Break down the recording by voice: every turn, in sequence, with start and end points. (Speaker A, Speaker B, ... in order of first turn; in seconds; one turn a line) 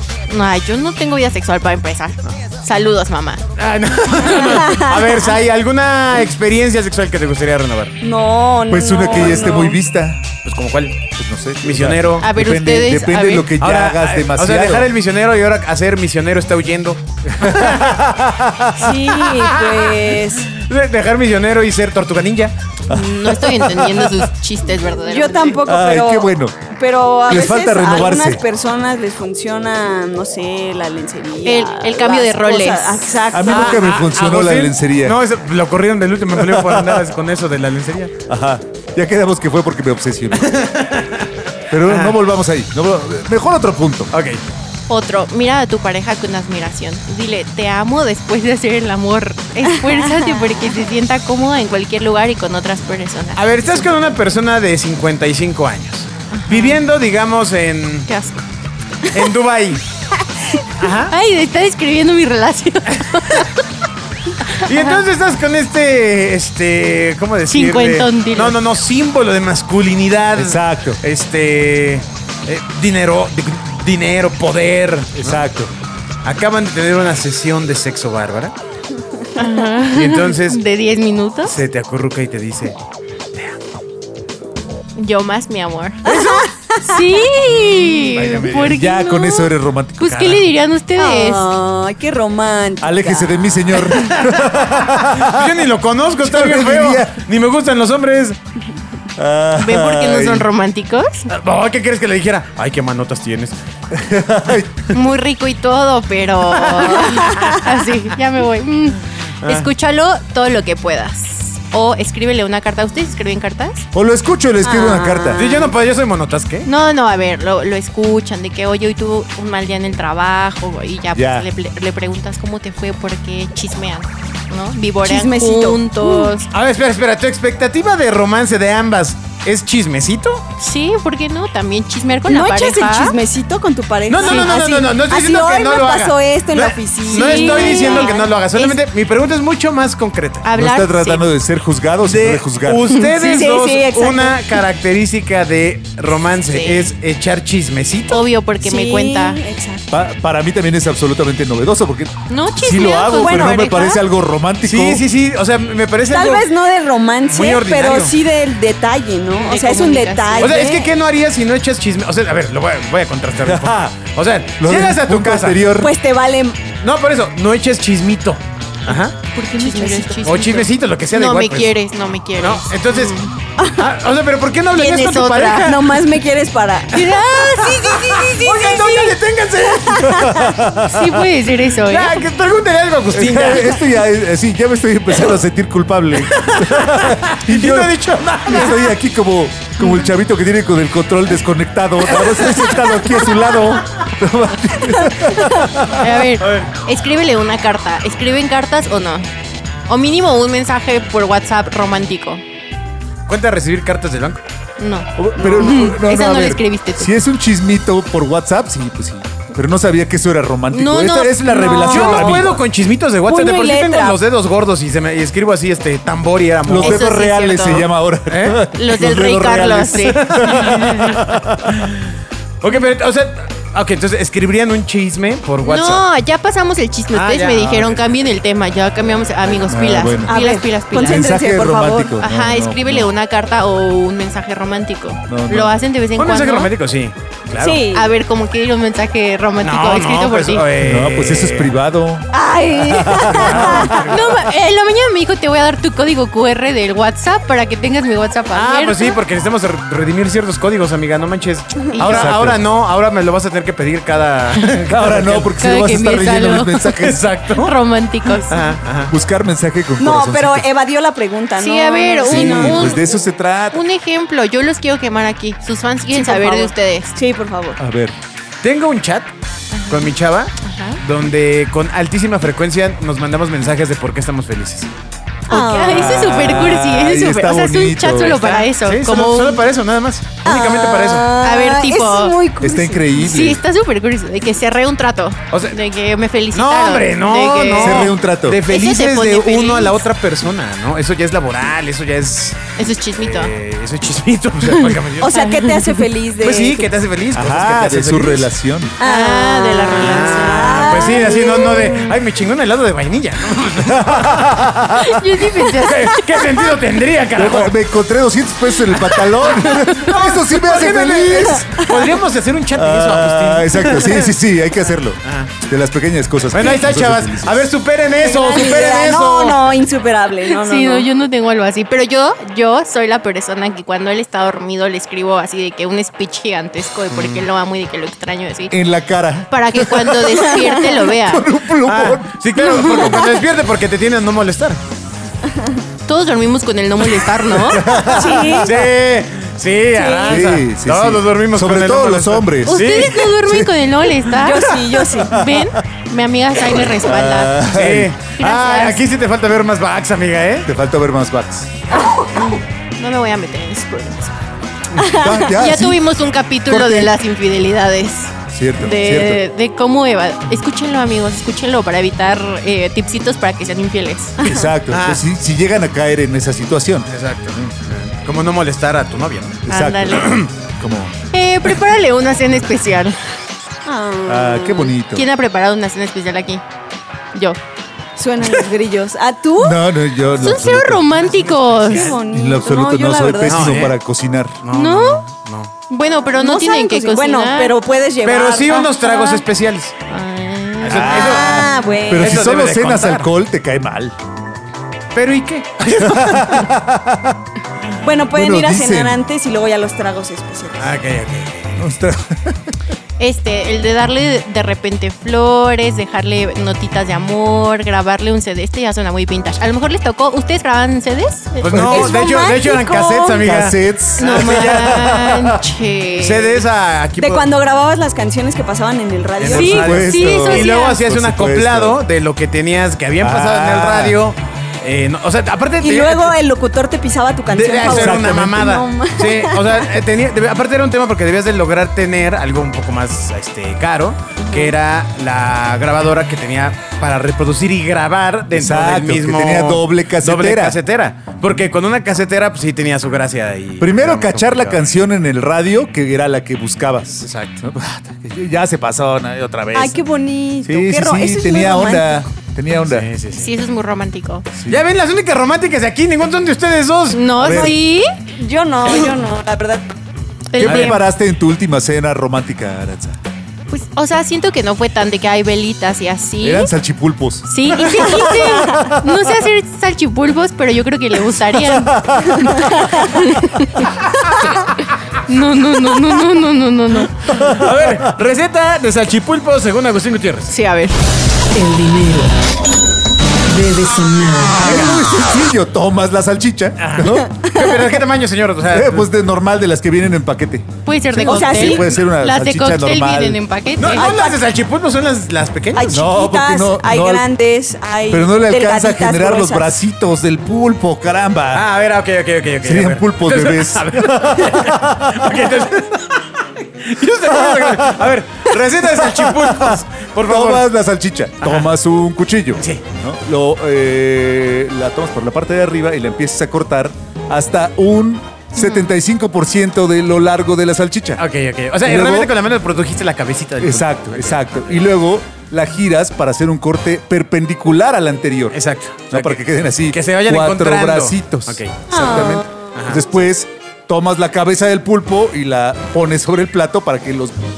Speaker A: 0.3-3.4
Speaker B: 3.5-8.0
Speaker C: 4.4-5.1
Speaker C: 8.0-9.8
Speaker D: 8.7-10.3
Speaker B: 10.4-11.0
Speaker D: 11.2-14.9
Speaker B: 11.6-12.2
Speaker A: 12.2-13.5
Speaker B: 13.6-18.0
Speaker D: 17.3-19.0
Speaker C: 18.8-20.5
Speaker B: 19.2-22.5
Speaker D: 22.9-24.3
Speaker A: 22.9-25.6
Speaker C: 25.0-33.9
Speaker D: 25.6-26.6
Speaker D: 27.3-28.4
Speaker A: 31.4-33.2
Speaker D: 33.3-35.2
Speaker B: 33.5-38.1
Speaker D: 36.3-37.1
Speaker D: 38.3-40.7
Speaker B: 40.3-41.3
Speaker D: 41.7-44.1
Speaker B: 41.8-42.2
Speaker B: 44.1-44.4
Speaker A: 44.9-54.0
Speaker B: 53.4-58.1
Speaker A: 56.3-56.8
Speaker A: 58.1-58.4
Speaker B: 59.1-59.8
Speaker B: 60.8-61.1
Speaker A: 61.1-63.5
Speaker A: 64.5-65.0
Speaker B: 64.6-75.4
Speaker A: 67.5-68.6
Speaker D: 70.3-71.0
Speaker D: 75.2-75.7
Speaker B: 76.2-78.5
Speaker A: 79.3-81.6
Speaker B: 79.9-80.6
Speaker B: 81.5-82.8
Speaker A: 85.0-86.0
Speaker B: 86.0-86.5
Speaker C: 86.0-87.2
Speaker A: 86.8-91.5
Speaker B: 88.0-88.8
Speaker D: 88.5-90.4
Speaker C: 91.0-93.5
Speaker D: 92.8-95.6
Speaker B: 93.8-98.4
Speaker D: 96.2-97.2
Speaker D: 99.2-100.5
Speaker A: 99.5-101.3
Speaker B: 101.3-103.5
Speaker D: 103.9-104.9
Speaker A: 104.9-113.9
Speaker B: 106.6-107.4
Speaker C: 107.1-107.5
Speaker B: 109.4-109.7
Speaker D: 113.9-115.5
Speaker C: 114.6-115.7
Speaker B: 115.3-116.7
Speaker A: 116.6-126.5
Speaker D: 121.1-121.5
Speaker C: 125.0-126.3
Speaker B: 126.5-130.4
Speaker A: 130.6-133.2
Speaker C: 132.2-138.3
Speaker B: 134.1-140.5
Speaker A: 134.2-134.6
Speaker A: 137.1-138.8
Speaker A: 140.4-141.2
Speaker D: 140.5-142.9
Speaker B: 142.1-148.2
Speaker A: 142.9-143.4
Speaker C: 143.1-144.4
Speaker A: 146.4-146.9
Speaker A: 148.1-149.4
Speaker C: 148.6-149.8
Speaker D: 149.9-155.0
Speaker A: 152.3-154.0
Speaker C: 153.2-153.5
Speaker B: 154.6-156.5
Speaker C: 156.1-160.9
Speaker B: 157.3-158.1
Speaker A: 159.4-160.7
Speaker B: 160.4-165.6
Speaker D: 163.4-164.0
Speaker D: 164.6-165.9
Speaker C: 165.8-166.6
Speaker B: 166.8-169.2
Speaker A: 168.9-173.3
Speaker C: 169.6-170.2
Speaker B: 170.2-171.7
Speaker B: 172.4-173.2
Speaker C: 173.6-173.8
Speaker B: 173.7-176.0
Speaker A: 174.7-175.7
Speaker C: 175.7-178.2
Speaker A: 176.9-179.2
Speaker B: 178.2-180.4
Speaker D: 180.1-181.2
Speaker A: 180.8-182.2
Speaker B: 181.9-183.8
Speaker D: 183.1-196.2
Speaker B: 186.2-188.9
Speaker B: 192.1-192.9
Speaker A: 196.0-199.3
Speaker B: 196.4-196.7
Speaker A: 199.9-202.4
Speaker B: 203.3-204.4
Speaker A: 204.8-207.1
Speaker D: 205.2-212.6
Speaker A: 210.7-212.3
Speaker B: 211.9-217.1
Speaker C: 213.2-214.2
Speaker D: 216.7-221.9
Speaker A: 216.8-217.8
Speaker B: 217.6-218.6
Speaker A: 218.7-221.2
Speaker B: 220.0-222.0
Speaker B: 222.6-226.1
Speaker A: 225.6-231.3
Speaker B: 227.1-228.1
Speaker D: 229.7-230.4
Speaker C: 230.2-232.2
Speaker D: 231.0-233.1
Speaker A: 232.2-236.7
Speaker D: 235.3-235.7
Speaker B: 236.2-237.8
Speaker C: 237.6-238.1
Speaker A: 237.9-240.7
Speaker B: 239.6-241.7
Speaker D: 240.8-244.2
Speaker C: 242.3-244.0
Speaker B: 243.2-244.2
Speaker A: 244.0-249.2
Speaker B: 248.5-255.5
Speaker A: 251.9-252.3
Speaker D: 252.0-252.6
Speaker D: 254.8-257.2
Speaker A: 255.6-257.0
Speaker B: 257.0-257.7
Speaker A: 257.5-258.6
Speaker B: 258.5-259.1
Speaker D: 259.1-260.7
Speaker C: 260.0-263.0
Speaker A: 261.6-263.2
Speaker D: 262.3-263.8
Speaker A: 263.7-267.1
Speaker C: 266.1-267.8
Speaker D: 267.8-268.1
Speaker B: 268.6-269.3
Speaker A: 269.7-271.0
Speaker B: 269.9-274.9
Speaker C: 275.5-276.4
Speaker A: 275.5-279.6
Speaker D: 275.6-278.5
Speaker B: 278.4-281.3
Speaker C: 280.4-283.1
Speaker A: 281.4-282.4
Speaker D: 282.6-283.6
Speaker A: 283.1-288.1
Speaker B: 285.5-285.8
Speaker B: 286.5-295.4
Speaker D: 287.8-288.6
Speaker A: 288.6-290.0
Speaker A: 292.8-293.5
Speaker C: 295.2-296.9
Speaker A: 295.3-296.1
Speaker B: 296.4-298.5
Speaker D: 297.3-298.9
Speaker C: 299.0-302.1
Speaker A: 299.0-301.2
Speaker B: 299.9-304.6
Speaker D: 303.8-305.2
Speaker A: 304.9-306.5
Speaker B: 305.7-307.8
Speaker D: 307.3-311.8
Speaker B: 309.1-314.3
Speaker A: 309.7-310.0
Speaker C: 310.2-312.1
Speaker D: 312.7-317.7
Speaker B: 315.2-315.5
Speaker B: 316.5-319.7
Speaker C: 318.2-321.1
Speaker A: 320.5-328.7
Speaker B: 327.1-327.4
Speaker D: 328.7-333.2
Speaker A: 329.5-331.5
Speaker C: 330.4-330.9
Speaker B: 331.8-334.8
Speaker A: 332.6-333.2
Speaker C: 335.5-335.8
Speaker A: 336.1-338.0
Speaker D: 337.6-338.7
Speaker C: 338.1-338.7
Speaker B: 338.6-343.2
Speaker C: 339.9-340.4
Speaker D: 340.2-343.7
Speaker A: 342.6-347.6
Speaker C: 344.3-345.4
Speaker D: 345.3-345.7
Speaker D: 346.9-348.1
Speaker B: 347.7-350.7
Speaker A: 348.4-349.0
Speaker D: 350.6-351.7
Speaker A: 352.4-354.3
Speaker D: 354.9-356.0
Speaker C: 354.9-355.5
Speaker A: 355.5-364.4
Speaker D: 356.7-357.1
Speaker D: 358.5-359.4
Speaker C: 364.4-364.6
Speaker D: 364.4-367.7
Speaker B: 364.7-365.2
Speaker B: 367.1-370.5
Speaker D: 369.6-371.1
Speaker A: 369.7-370.4
Speaker A: 371.3-373.2
Speaker C: 373.8-374.9
Speaker D: 374.3-375.2
Speaker A: 375.1-376.6
Speaker A: 377.3-377.6
Speaker C: 378.1-379.8
Speaker D: 379.6-381.1
Speaker A: 380.4-382.1
Speaker B: 381.2-382.2
Speaker C: 381.9-383.9
Speaker D: 382.3-384.6
Speaker B: 383.4-384.0
Speaker B: 384.6-385.7
Speaker A: 384.7-385.2
Speaker A: 385.9-387.8
Speaker C: 386.4-389.3
Speaker B: 388.2-389.9
Speaker A: 388.9-389.4
Speaker A: 390.1-391.1
Speaker B: 390.8-393.3
Speaker D: 390.9-394.1
Speaker C: 391.0-392.4
Speaker B: 395.1-396.6
Speaker D: 396.0-397.4
Speaker C: 398.0-400.9
Speaker D: 398.3-399.2
Speaker B: 400.8-401.8
Speaker D: 401.8-402.8
Speaker A: 403.2-411.9
Speaker B: 411.6-415.1
Speaker D: 411.7-412.1
Speaker C: 411.9-413.5
Speaker D: 413.4-415.6
Speaker A: 414.2-416.6
Speaker B: 416.1-417.5
Speaker C: 417.2-419.9
Speaker B: 419.4-426.4
Speaker D: 419.5-422.0
Speaker A: 419.5-421.0
Speaker D: 423.2-424.2
Speaker C: 425.8-429.9
Speaker B: 427.5-444.8
Speaker D: 427.8-428.8
Speaker C: 434.4-434.7
Speaker D: 438.5-440.8
Speaker D: 443.8-450.0
Speaker B: 447.2-447.6
Speaker C: 449.7-452.1
Speaker D: 450.6-453.1
Speaker B: 452.9-453.5
Speaker A: 453.3-454.4
Speaker D: 454.5-454.8
Speaker B: 454.7-457.4
Speaker A: 457.1-458.1
Speaker D: 457.4-457.8
Speaker C: 457.5-457.8
Speaker C: 458.4-460.0
Speaker A: 460.5-461.0
Speaker D: 460.6-463.2
Speaker B: 460.6-461.0
Speaker A: 463.7-466.7
Speaker D: 466.4-469.2
Speaker A: 467.4-473.9
Speaker D: 471.5-473.1
Speaker A: 475.3-477.3
Speaker D: 477.3-477.7
Speaker B: 477.3-480.5
Speaker A: 480.5-481.0
Speaker E: 481.5-482.3
Speaker E: 483.4-484.8
Speaker D: 484.6-487.3
Speaker B: 484.6-485.0
Speaker B: 486.8-489.1
Speaker C: 487.5-487.8
Speaker D: 488.7-493.4
Speaker A: 490.9-494.1
Speaker C: 491.2-491.9
Speaker B: 493.8-496.0
Speaker C: 493.9-494.4
Speaker C: 495.7-499.8
Speaker D: 495.9-497.2
Speaker D: 498.1-501.6
Speaker B: 501.5-510.7
Speaker D: 502.6-505.6
Speaker D: 507.3-508.1
Speaker D: 508.8-521.2
Speaker B: 511.4-511.7
Speaker A: 518.5-518.9
Speaker B: 521.2-524.8
Speaker D: 521.8-522.3
Speaker D: 523.6-528.6
Speaker B: 528.5-533.0
Speaker D: 529.1-537.4
Speaker C: 531.9-532.6